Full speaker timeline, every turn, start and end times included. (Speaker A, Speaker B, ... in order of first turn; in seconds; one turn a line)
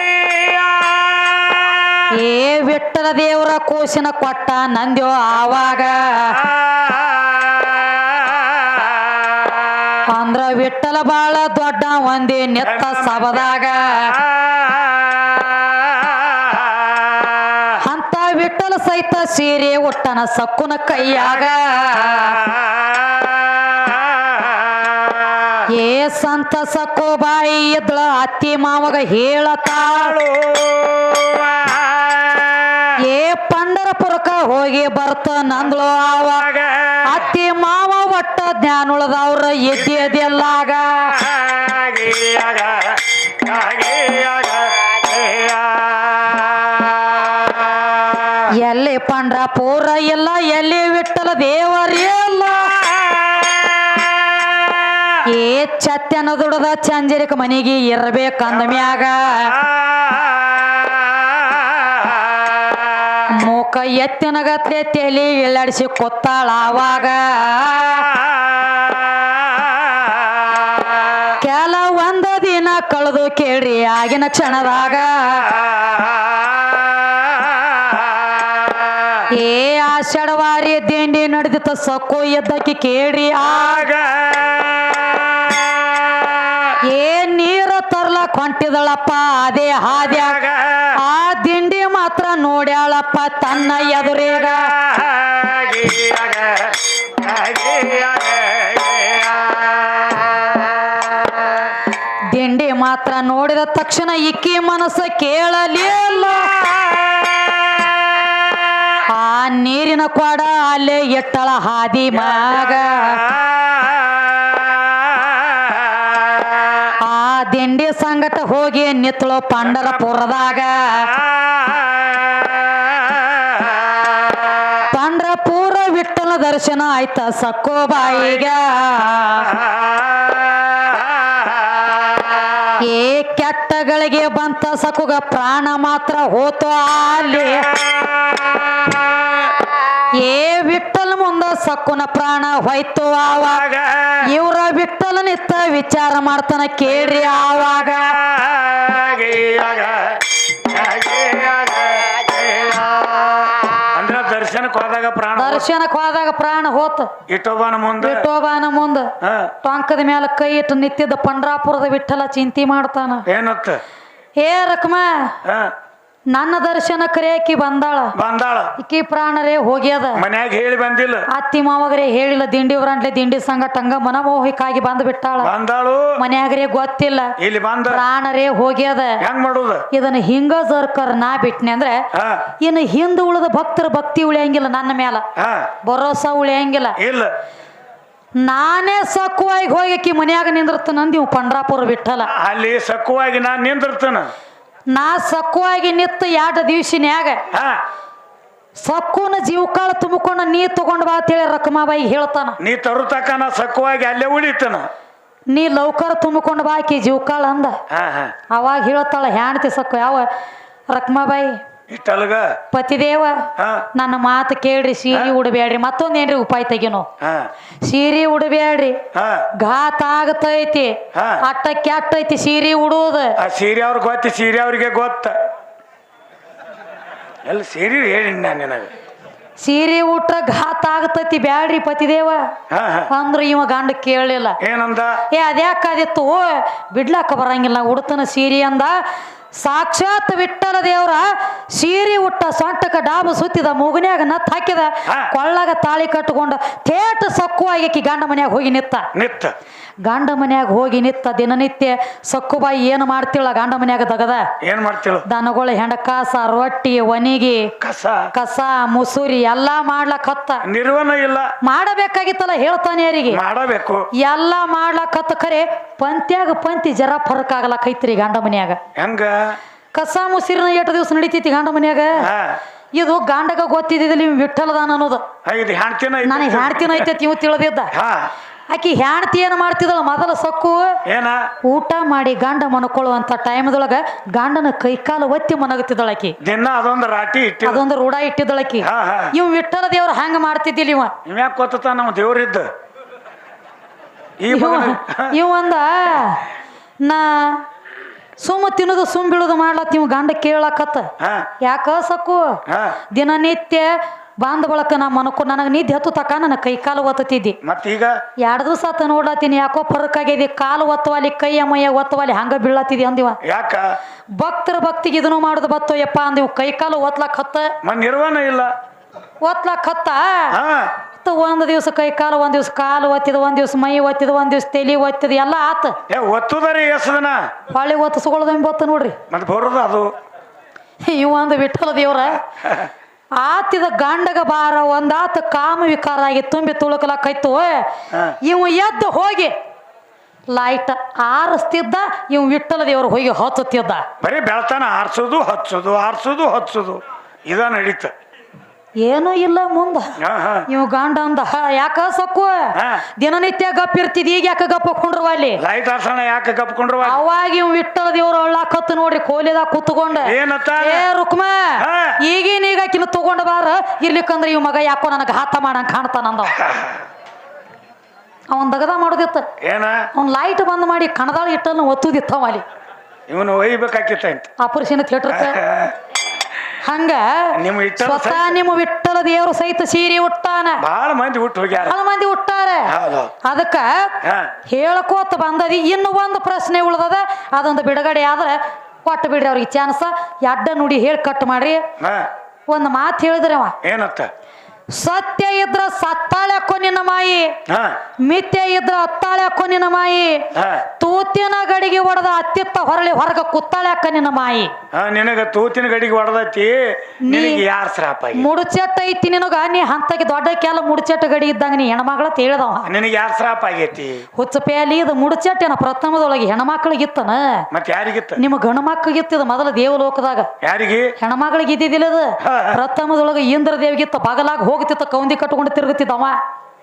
Speaker A: 0.2-0.9
Speaker B: 2.1-6.5
Speaker A: 6.9-7.5
Speaker B: 10.1-14.2
Speaker A: 12.7-13.3
Speaker A: 14.2-15.4
Speaker A: 16.3-17.6
Speaker B: 17.8-22.4
Speaker A: 22.6-23.2
Speaker A: 24.2-24.6
Speaker B: 25.7-30.1
Speaker A: 29.8-32.9
Speaker B: 33.0-36.5
Speaker A: 36.5-37.0
Speaker B: 37.0-41.2
Speaker A: 41.3-47.4
Speaker B: 48.5-53.0
Speaker B: 55.2-59.6
Speaker B: 63.3-68.2
Speaker B: 71.4-75.5
Speaker A: 75.9-76.5
Speaker B: 79.3-83.9
Speaker A: 83.5-86.7
Speaker B: 86.8-90.4
Speaker A: 90.2-90.9
Speaker B: 91.0-94.8
Speaker A: 95.0-100.6
Speaker B: 102.3-106.7
Speaker B: 109.1-113.3
Speaker B: 117.0-121.2
Speaker B: 124.9-129.6
Speaker B: 132.8-137.7
Speaker B: 140.1-143.6
Speaker A: 143.4-144.2
Speaker B: 144.2-148.2
Speaker A: 148.3-155.6
Speaker B: 155.3-157.1
Speaker A: 157.3-158.2
Speaker B: 158.0-159.1
Speaker A: 159.2-159.5
Speaker B: 159.6-163.2
Speaker A: 163.3-163.8
Speaker B: 164.4-165.3
Speaker A: 165.4-165.7
Speaker B: 166.3-168.1
Speaker A: 168.2-168.7
Speaker B: 168.8-170.2
Speaker A: 170.2-171.3
Speaker B: 171.3-175.5
Speaker A: 175.4-176.2
Speaker B: 176.2-177.3
Speaker A: 177.4-178.0
Speaker B: 177.9-179.2
Speaker A: 179.2-179.8
Speaker B: 179.9-182.0
Speaker A: 182.1-182.4
Speaker B: 182.6-185.2
Speaker A: 185.3-185.7
Speaker B: 185.8-187.0
Speaker A: 187.0-187.3
Speaker B: 188.4-192.3
Speaker A: 192.3-194.3
Speaker B: 194.9-197.4
Speaker A: 197.5-197.8
Speaker B: 198.8-202.6
Speaker A: 202.6-204.9
Speaker B: 205.5-207.8
Speaker A: 207.9-208.3
Speaker B: 208.5-210.3
Speaker B: 210.9-211.6
Speaker A: 211.9-212.6
Speaker B: 212.7-217.1
Speaker A: 213.6-213.9
Speaker A: 217.2-217.5
Speaker B: 217.8-219.0
Speaker A: 219.1-219.5
Speaker B: 219.6-223.3
Speaker A: 221.1-221.4
Speaker A: 223.4-225.3
Speaker A: 227.4-228.9
Speaker B: 229.6-232.5
Speaker A: 232.7-233.1
Speaker B: 233.1-234.6
Speaker A: 234.6-235.2
Speaker B: 235.3-239.0
Speaker B: 239.5-249.1
Speaker A: 249.1-249.5
Speaker B: 250.0-254.5
Speaker A: 254.6-255.2
Speaker B: 255.2-257.7
Speaker A: 257.8-258.3
Speaker B: 258.3-260.6
Speaker A: 260.6-261.5
Speaker B: 261.6-263.4
Speaker A: 263.3-264.1
Speaker B: 264.1-268.8
Speaker A: 268.9-269.6
Speaker B: 269.9-272.2
Speaker A: 272.2-272.6
Speaker B: 272.9-275.2
Speaker A: 275.4-277.1
Speaker B: 276.2-277.9
Speaker A: 277.9-278.3
Speaker B: 278.7-281.0
Speaker A: 281.1-281.5
Speaker B: 281.6-286.4
Speaker A: 286.4-287.8
Speaker B: 287.6-291.1
Speaker A: 288.8-289.3
Speaker A: 291.2-292.7
Speaker A: 294.4-295.4
Speaker B: 294.5-296.4
Speaker B: 297.0-297.6
Speaker B: 298.4-307.6
Speaker A: 301.2-301.5
Speaker A: 302.7-303.0
Speaker A: 307.6-308.2
Speaker B: 308.4-313.4
Speaker A: 313.4-313.9
Speaker B: 314.4-317.7
Speaker A: 317.8-318.7
Speaker B: 319.4-320.6
Speaker A: 320.5-320.9
Speaker B: 321.2-326.0
Speaker A: 326.1-327.5
Speaker B: 327.7-329.2
Speaker A: 329.3-330.1
Speaker B: 331.0-332.4
Speaker B: 333.3-337.9
Speaker B: 338.4-339.5
Speaker B: 340.5-344.1
Speaker A: 344.2-348.1
Speaker B: 349.0-350.2
Speaker A: 350.2-350.6
Speaker B: 350.7-355.6
Speaker A: 352.8-353.0
Speaker A: 355.6-357.2
Speaker B: 357.0-366.6
Speaker A: 360.2-361.0
Speaker A: 361.8-362.2
Speaker A: 366.6-366.9
Speaker B: 368.5-369.5
Speaker A: 369.6-370.1
Speaker B: 370.1-372.6
Speaker A: 373.3-374.5
Speaker B: 374.6-375.6
Speaker A: 375.3-375.9
Speaker B: 376.8-380.8
Speaker A: 377.5-378.6
Speaker A: 380.8-381.9
Speaker B: 381.8-384.1
Speaker A: 382.9-383.3
Speaker A: 384.2-384.5
Speaker B: 384.7-391.9
Speaker A: 392.0-392.3
Speaker B: 392.7-393.8
Speaker A: 393.8-394.3
Speaker B: 394.9-397.6
Speaker A: 397.7-397.9
Speaker B: 398.2-400.4
Speaker A: 400.5-400.8
Speaker B: 401.0-404.7
Speaker A: 404.9-408.5
Speaker B: 407.2-407.6
Speaker B: 408.3-412.9
Speaker A: 412.9-414.2
Speaker B: 414.4-417.6
Speaker A: 417.7-418.4
Speaker B: 418.4-420.5
Speaker A: 420.6-421.1
Speaker B: 421.2-426.4
Speaker A: 422.4-422.8